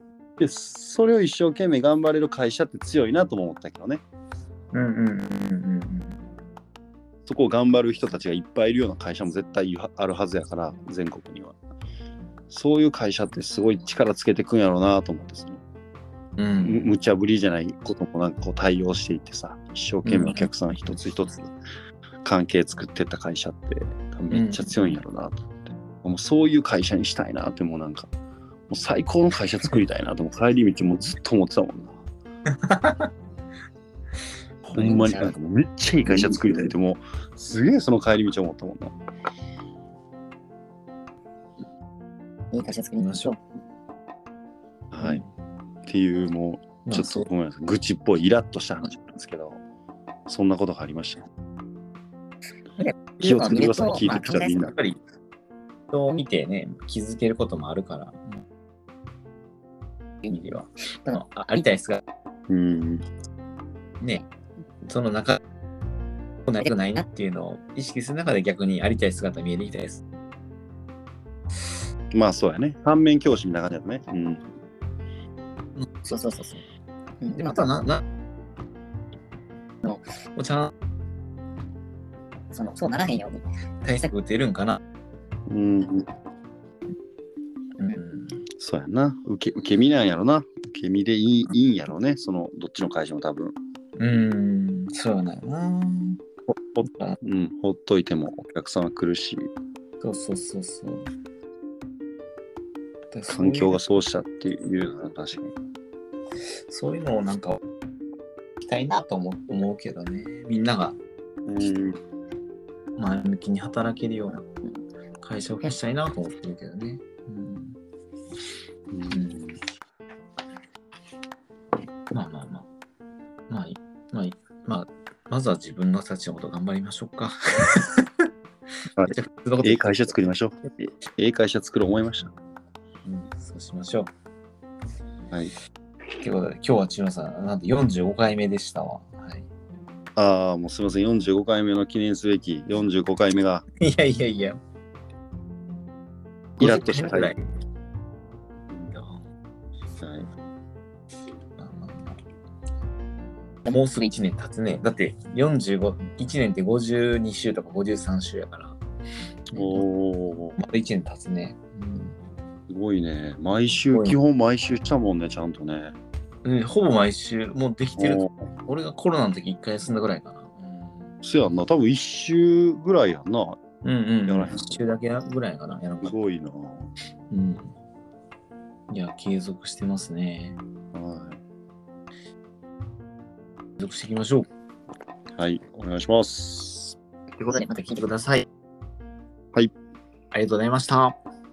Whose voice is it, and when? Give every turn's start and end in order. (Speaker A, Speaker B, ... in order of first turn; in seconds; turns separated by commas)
Speaker A: 0.4-4.0, Speaker B: 4.7-6.2, Speaker A: 7.3-11.6, Speaker A: 12.5-15.6, Speaker B: 16.4-16.9, Speaker A: 16.6-21.6, Speaker B: 20.1-20.5, Speaker A: 22.2-28.1, Speaker B: 24.3-25.0, Speaker A: 28.7-32.0, Speaker B: 32.5-33.1, Speaker B: 34.7-35.1, Speaker A: 34.7-39.0, Speaker C: 34.8-35.3, Speaker C: 42.5-43.4, Speaker B: 43.0-43.4, Speaker A: 44.9-45.2, Speaker B: 45.0-45.3, Speaker A: 45.9-49.6, Speaker B: 46.9-47.3, Speaker A: 50.3-51.3, Speaker C: 52.8-54.6, Speaker A: 53.2-54.8, Speaker B: 53.9-55.0, Speaker B: 55.9-58.4, Speaker C: 60.2-60.5, Speaker B: 60.3-62.0, Speaker A: 62.5-63.1, Speaker B: 64.0-64.3, Speaker B: 64.9-65.4, Speaker B: 66.5-70.0, Speaker A: 72.1-74.5, Speaker B: 75.8-76.5, Speaker C: 76.1-76.6, Speaker C: 77.2-77.6, Speaker B: 77.3-78.0, Speaker B: 80.3-80.7, Speaker C: 82.5-84.1, Speaker B: 83.8-84.8, Speaker A: 85.5-86.1, Speaker B: 87.8-88.4, Speaker A: 88.6-93.6, Speaker B: 94.0-96.2, Speaker A: 96.5-99.5, Speaker B: 96.9-97.2, Speaker B: 100.0-101.1, Speaker B: 103.1-103.8, Speaker A: 103.3-105.5, Speaker B: 106.7-107.6, Speaker B: 108.6-111.0, Speaker A: 111.5-112.0, Speaker B: 113.0-114.5, Speaker B: 115.2-117.8, Speaker A: 118.9-119.6, Speaker B: 119.1-119.4, Speaker B: 122.1-122.7, Speaker B: 123.5-128.1, Speaker A: 129.0-132.3, Speaker B: 129.1-130.1, Speaker B: 133.1-134.1, Speaker B: 136.2-139.5, Speaker A: 140.2-143.7, Speaker B: 143.8-144.6, Speaker A: 146.6-147.3, Speaker B: 146.6-147.5, Speaker B: 148.9-149.2, Speaker A: 150.0-150.3, Speaker B: 151.6-152.2, Speaker B: 153.7-158.8, Speaker B: 159.5-159.9, Speaker A: 159.6-160.6, Speaker B: 160.6-162.2, Speaker A: 162.7-166.0, Speaker B: 163.9-164.2, Speaker B: 166.4-171.1, Speaker A: 168.0-168.3, Speaker A: 171.2-173.6, Speaker B: 173.8-176.1, Speaker A: 174.3-174.8, Speaker A: 176.0-176.9, Speaker B: 177.3-177.7, Speaker B: 178.9-180.6, Speaker A: 180.9-181.4, Speaker B: 183.8-184.5, Speaker A: 185.4-187.0, Speaker B: 187.4-188.5, Speaker B: 190.3-191.2